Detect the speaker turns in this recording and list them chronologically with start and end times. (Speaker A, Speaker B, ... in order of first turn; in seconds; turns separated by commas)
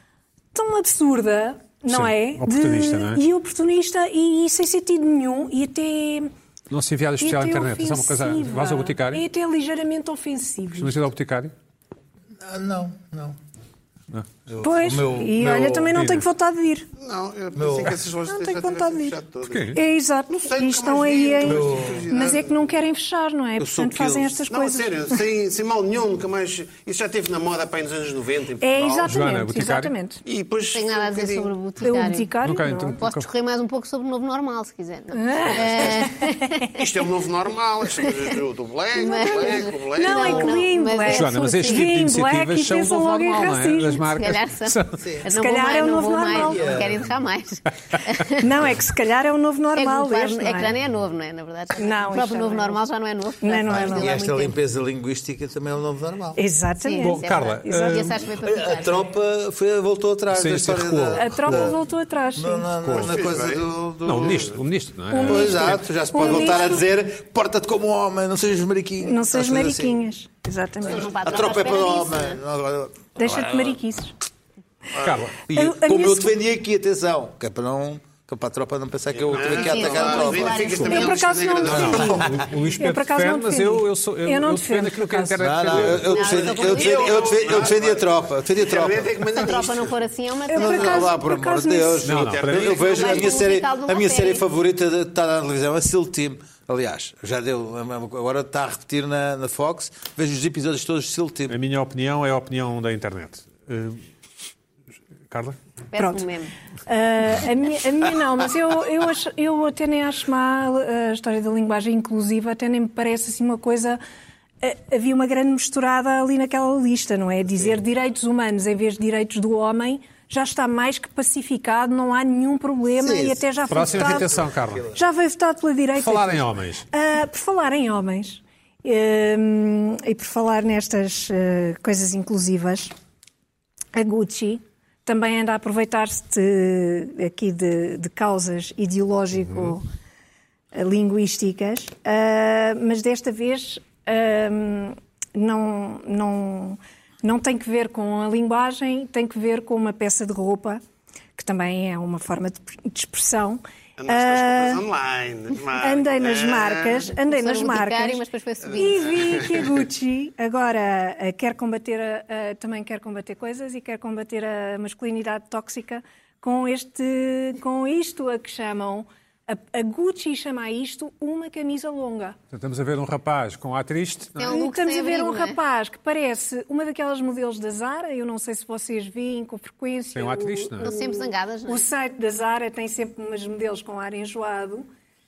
Speaker A: 0.5-6.3, Speaker B: 1.9-3.2, Speaker B: 6.7-9.2, Speaker A: 7.2-11.0, Speaker B: 10.8-11.5, Speaker C: 12.4-13.4, Speaker B: 14.1-16.3, Speaker C: 14.5-15.5, Speaker A: 14.6-16.9, Speaker D: 17.0-19.8, Speaker C: 17.6-18.0, Speaker A: 18.3-19.2, Speaker B: 19.4-19.8, Speaker A: 19.7-25.2, Speaker D: 20.3-22.7, Speaker C: 21.4-22.1, Speaker D: 23.7-29.1, Speaker A: 28.6-30.2, Speaker B: 29.0-29.9, Speaker D: 30.2-31.5, Speaker E: 30.7-32.3, Speaker A: 31.8-33.0, Speaker B: 32.4-33.3, Speaker E: 33.0-36.8, Speaker A: 35.1-36.7, Speaker D: 36.7-40.6, Speaker E: 39.0-41.8, Speaker A: 40.0-44.1, Speaker B: 41.0-45.0, Speaker E: 44.1-48.5, Speaker C: 45.0-45.3, Speaker A: 45.3-46.9, Speaker C: 46.3-47.1, Speaker A: 48.4-50.7, Speaker E: 49.8-54.5, Speaker A: 51.8-52.8, Speaker A: 53.4-54.2, Speaker C: 53.7-56.4, Speaker A: 56.4-58.1, Speaker E: 56.8-59.0, Speaker B: 57.0-58.2, Speaker C: 58.4-61.8, Speaker B: 60.3-61.8, Speaker A: 61.1-62.7, Speaker C: 62.4-64.5, Speaker B: 62.8-63.2, Speaker D: 62.9-63.6, Speaker B: 64.0-65.8, Speaker A: 65.1-66.8, Speaker C: 65.2-70.0, Speaker A: 69.0-71.1, Speaker E: 70.8-72.4, Speaker C: 71.0-73.3, Speaker A: 73.2-74.1, Speaker D: 75.0-75.2, Speaker B: 75.0-75.4, Speaker C: 75.5-81.1, Speaker A: 75.5-76.4, Speaker D: 79.2-82.3, Speaker E: 79.5-81.2, Speaker A: 80.9-85.4, Speaker B: 81.7-86.2, Speaker C: 85.4-89.4, Speaker E: 85.8-87.3, Speaker D: 86.3-89.9, Speaker E: 89.4-91.1, Speaker A: 90.5-92.1, Speaker C: 90.5-101.5, Speaker B: 92.0-93.0, Speaker D: 92.1-93.5, Speaker E: 92.7-94.4, Speaker B: 101.5-104.0, Speaker B: 105.3-105.6, Speaker E: 105.9-106.5, Speaker A: 106.0-106.3, Speaker A: 106.9-114.0, Speaker A: 114.6-124.4, Speaker B: 123.7-125.0, Speaker A: 124.9-132.9, Speaker B: 126.0-126.8, Speaker A: 133.9-139.8, Speaker A: 140.7-150.8, Speaker A: 151.4-154.8, Speaker D: 154.0-157.1, Speaker A: 155.8-172.4, Speaker E: 157.2-159.7, Speaker D: 158.8-159.5, Speaker B: 172.5-174.6, Speaker E: 174.4-175.6, Speaker A: 174.4-184.9, Speaker B: 180.1-180.9, Speaker E: 180.8-181.8